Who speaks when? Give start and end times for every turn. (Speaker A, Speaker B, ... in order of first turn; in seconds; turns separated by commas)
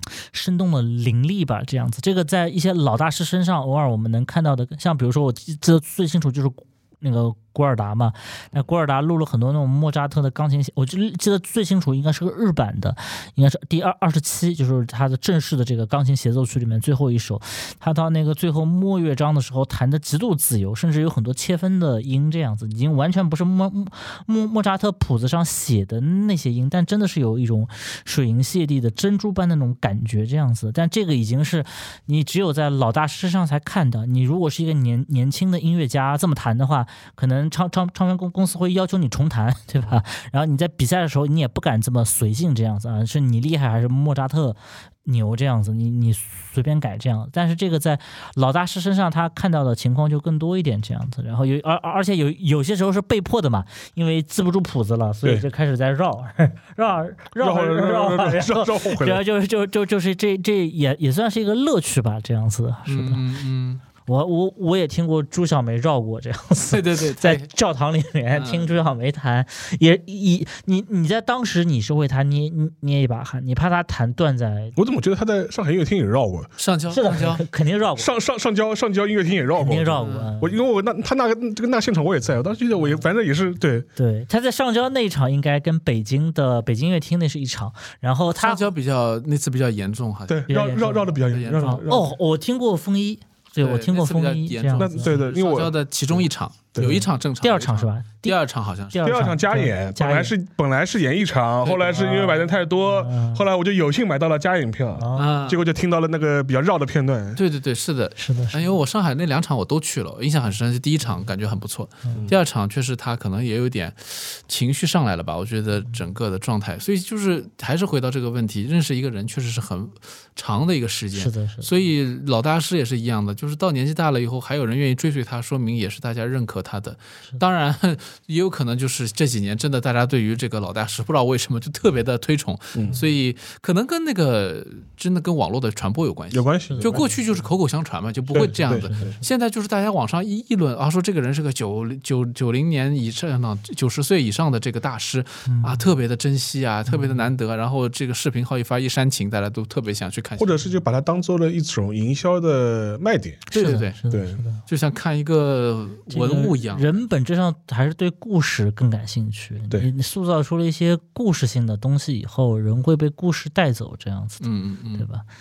Speaker A: 0.3-63.2, Speaker B: 57.4-59.2, Speaker C: 62.9-63.8, Speaker A: 64.0-74.8, Speaker C: 66.7-67.5, Speaker C: 68.3-68.7, Speaker B: 74.8-76.5, Speaker C: 76.6-77.4, Speaker A: 76.9-78.1, Speaker B: 78.0-83.9, Speaker A: 79.5-80.6, Speaker C: 80.0-80.3, Speaker A: 84.0-88.7, Speaker C: 88.3-90.5, Speaker B: 90.3-92.1, Speaker A: 90.5-95.2, Speaker C: 91.3-91.8, Speaker C: 93.6-99.0, Speaker B: 94.8-95.8, Speaker B: 96.8-97.0, Speaker A: 96.8-98.4, Speaker A: 98.9-100.3, Speaker B: 99.0-107.4, Speaker C: 101.6-102.1, Speaker A: 101.9-103.4, Speaker A: 105.0-105.3, Speaker C: 105.2-105.6, Speaker C: 107.4-150.6, Speaker A: 108.2-108.7, Speaker A: 121.1-121.7, Speaker B: 136.3-137.0, Speaker A: 136.7-137.1, Speaker B: 138.3-139.1, Speaker A: 138.3-139.2, Speaker A: 145.5-145.8, Speaker A: 146.9-147.3, Speaker B: 150.4-153.4, Speaker C: 153.5-154.0, Speaker A: 153.5-154.6, Speaker B: 154.1-154.4, Speaker C: 154.7-157.0, Speaker A: 156.1-165.2, Speaker C: 164.4-165.1